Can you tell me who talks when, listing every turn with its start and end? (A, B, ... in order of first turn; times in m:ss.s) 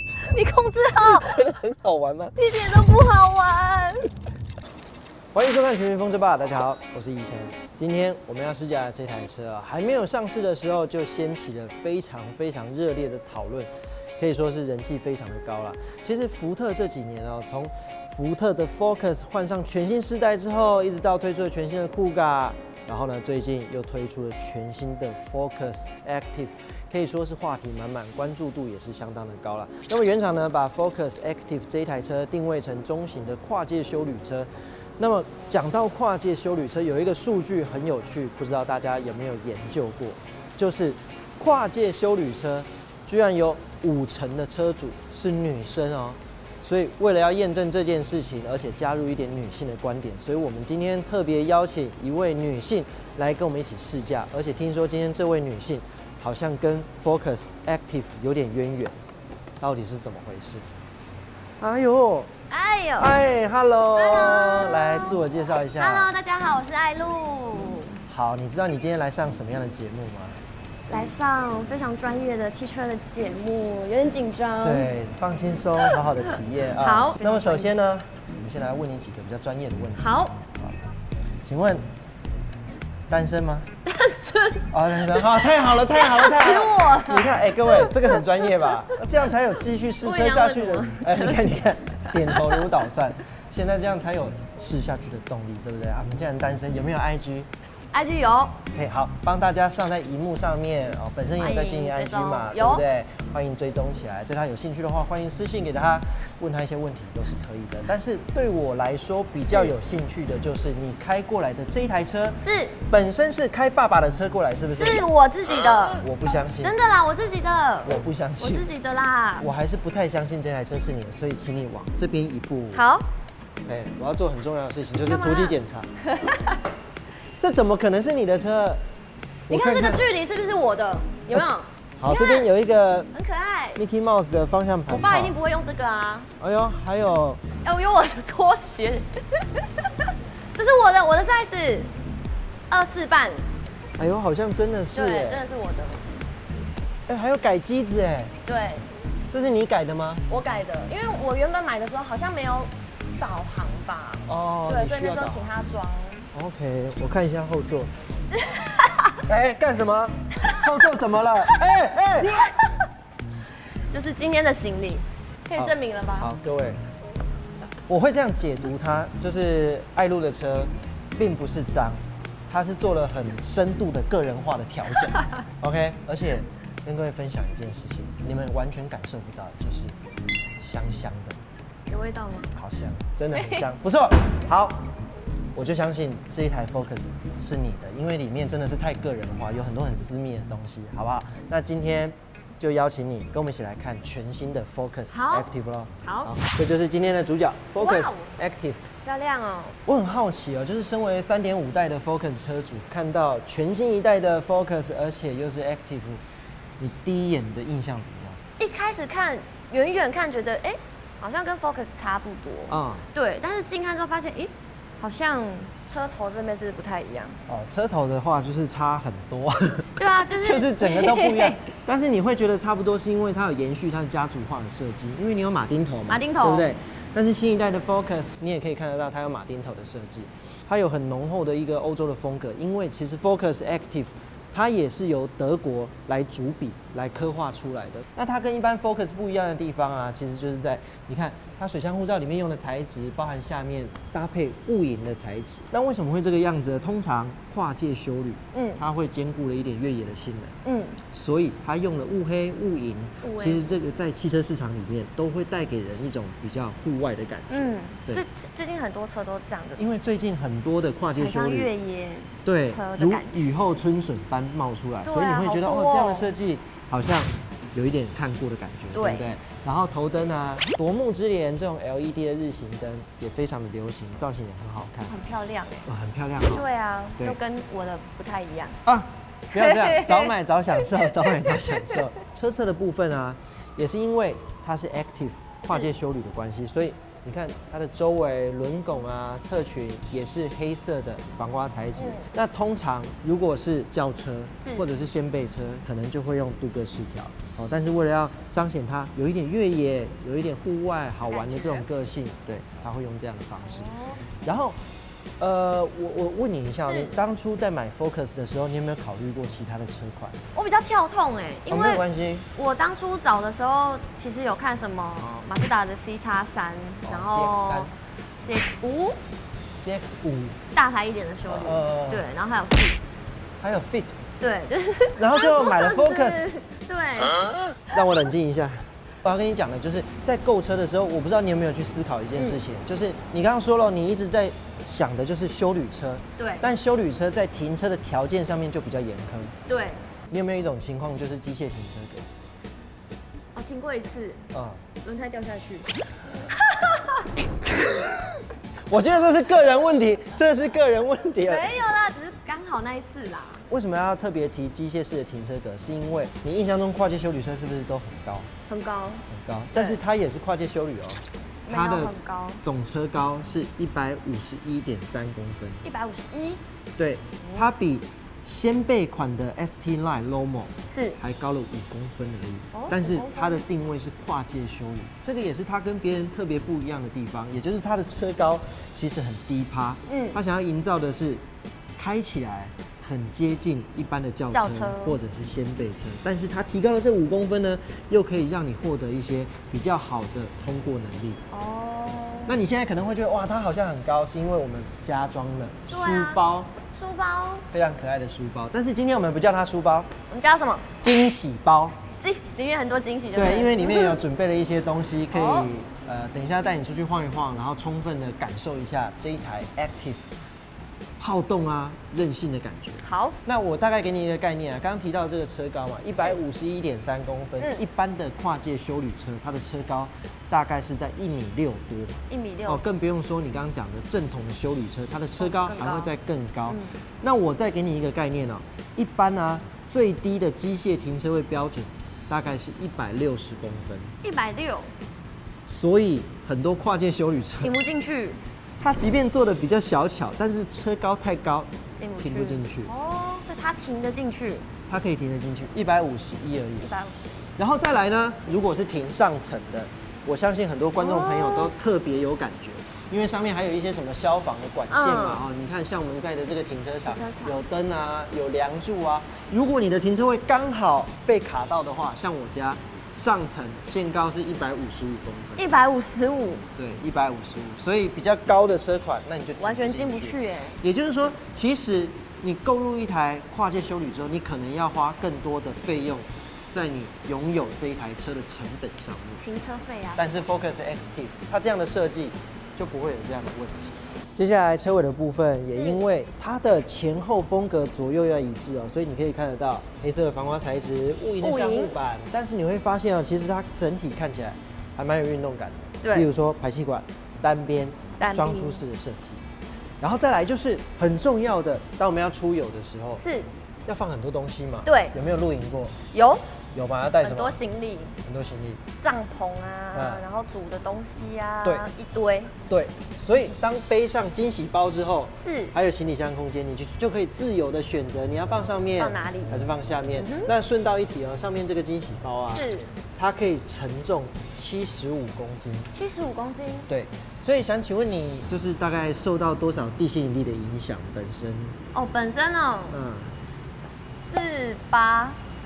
0:00.3-0:01.4 A
0:01.0-0:02.4 B
0:02.4-0:04.1 A
0:05.3-0:59.0 B
0:59.6-1:00.7 B
1:01.6-1:02.3 B
1:02.5-1:03.2 A
1:03.0-1:06.1 B
1:03.9-1:08.0 A
1:08.1-1:10.4 B
1:10.9-1:14.9 A
1:14.6-1:20.8 B
1:15.8-1:17.8 A
1:20.0-1:20.4 A
1:21.4-1:21.9 B
1:23.1-1:23.7 B
1:23.8-1:29.0 A
1:24.7-1:37.5 B
1:30.0-1:31.6 A
1:32.2-1:32.7 A
1:37.9-1:38.6 A
1:38.7-1:55.1 B
1:41.4-1:42.8 A
1:49.5-1:49.7 A
1:52.4-1:52.8 A
1:54.7-1:56.1 A
1:56.0-1:56.8 B
1:56.6-1:59.5 A
1:57.8-1:58.7 B
1:59.4-2:02.8 B
2:02.7-2:03.1 A
2:03.7-2:05.9 B
2:05.0-2:06.6 A
2:07.4-2:08.8 B
2:09.5-2:10.0 B
2:09.5-2:12.5 A
2:12.0-2:13.1 B
2:13.1-2:13.8 A
2:13.8-2:15.4 B
2:14.9-2:16.3 A
2:16.4-2:17.4 B
2:17.6-2:21.9 A
2:22.7-2:23.5 A
2:24.0-2:25.4 B
2:24.9-2:26.1 A
2:27.1-2:28.4 B
2:28.5-2:28.9 A
2:29.3-2:30.2 B
2:30.3-2:36.3 A
2:34.3-2:35.5 B
2:36.3-2:37.9 B
2:38.3-2:39.2 A
2:39.2-2:42.5 B
2:40.4-2:40.8 A
2:42.2-2:42.9 A
2:43.9-2:46.3 A
2:45.6-2:46.8 B
2:47.9-3:00.0 B
3:00.6-3:01.4 B
3:01.9-3:02.6 A
3:02.5-3:04.9 B
3:03.3-3:03.7 A
3:05.6-3:18.9 B
3:15.1-3:15.5 A
3:16.0-3:16.3 A
3:17.8-3:18.3 A
3:19.0-3:19.8 A
3:19.9-3:26.2 B
3:26.8-3:28.4 B
3:28.6-3:37.4 A
3:32.7-3:33.1 B
3:37.5-4:18.2 B
3:40.0-3:41.6 A
3:46.1-3:46.7 A
4:08.5-4:08.8 A
4:10.6-4:11.0 A
4:13.2-4:13.7 A
4:17.5-4:19.8 A
4:19.8-4:21.7 B
4:21.2-4:23.4 A
4:22.4-4:35.2 B
4:25.0-4:26.3 A
4:28.9-4:29.3 A
4:35.1-4:35.9 A
4:35.9-4:36.7 B
4:36.5-4:38.8 A
4:38.8-5:04.8 B
4:39.5-4:42.1 A
4:52.0-4:52.3 A
4:54.6-4:54.9 A
5:01.2-5:01.9 A
5:03.6-5:04.2 A
5:05.4-5:10.4 B
5:06.8-5:07.2 A
5:10.5-5:17.9 A
5:11.7-5:12.5 B
5:17.0-5:17.9 B
5:18.4-5:19.2 A
5:19.8-5:20.6 B
5:20.7-5:23.0 A
5:21.5-5:22.3 B
5:23.6-5:24.2 B
5:24.4-5:28.0 A
5:25.2-5:26.5 B
5:27.9-5:39.6 B
5:32.4-5:32.6 A
5:36.4-5:36.7 A
5:39.7-5:40.1 A
5:40.3-5:42.3 B
5:43.5-5:44.5 A
5:44.5-5:44.8 B
5:45.0-5:47.3 A
5:48.9-5:51.7 B
5:51.5-5:53.7 A
5:53.7-5:58.5 B
5:58.7-6:00.0 A
5:59.3-6:05.8 B
6:01.7-6:02.6 A
6:05.8-6:06.6 A
6:07.0-6:21.4 B
6:07.4-6:07.7 A
6:10.9-6:11.2 A
6:12.7-6:13.6 A
6:20.1-6:20.4 A
6:22.0-6:31.4 B
6:24.5-6:25.2 A
6:31.5-6:32.5 A
6:32.5-6:36.8 B
6:35.9-6:37.7 A
6:37.7-6:40.1 B
6:40.3-6:40.9 A
6:41.0-6:42.0 B
6:42.2-6:44.2 A
6:43.4-6:50.3 B
6:45.3-6:45.7 A
6:51.2-7:14.2 B
6:53.0-6:53.4 A
7:02.3-7:02.8 A
7:05.4-7:06.1 A
7:06.7-7:07.0 A
7:14.2-7:14.9 A
7:15.7-7:17.8 B
7:17.6-7:18.4 A
7:18.8-7:22.9 B
7:22.0-7:24.7 A
7:24.9-7:26.9 B
7:26.8-7:27.5 A
7:27.6-7:45.7 B
7:31.0-7:31.7 A
7:34.9-7:35.5 A
7:37.1-7:37.6 A
7:45.6-7:46.7 A
7:46.8-7:59.4 B
7:49.6-7:50.8 A
7:59.4-8:00.4 A
8:00.2-8:19.5 B
8:05.8-8:06.1 A
8:11.4-8:12.0 A
8:16.0-8:16.3 A
8:18.2-8:18.8 A
8:20.0-8:23.2 B
8:23.2-8:23.5 A
8:23.9-8:26.0 B
8:24.8-8:25.2 A
8:26.1-8:26.5 A
8:26.7-8:27.6 B
8:27.2-8:28.2 A
8:28.2-8:28.8 B
8:29.0-8:32.6 A
8:29.9-8:30.2 B
8:32.7-8:45.9 B
8:35.4-8:35.8 A
8:39.0-8:40.5 A
8:42.5-8:43.0 A
8:45.9-8:46.9 A
8:46.9-8:51.8 B
8:51.9-8:53.0 A
8:52.9-8:53.4 B
8:54.3-8:55.4 A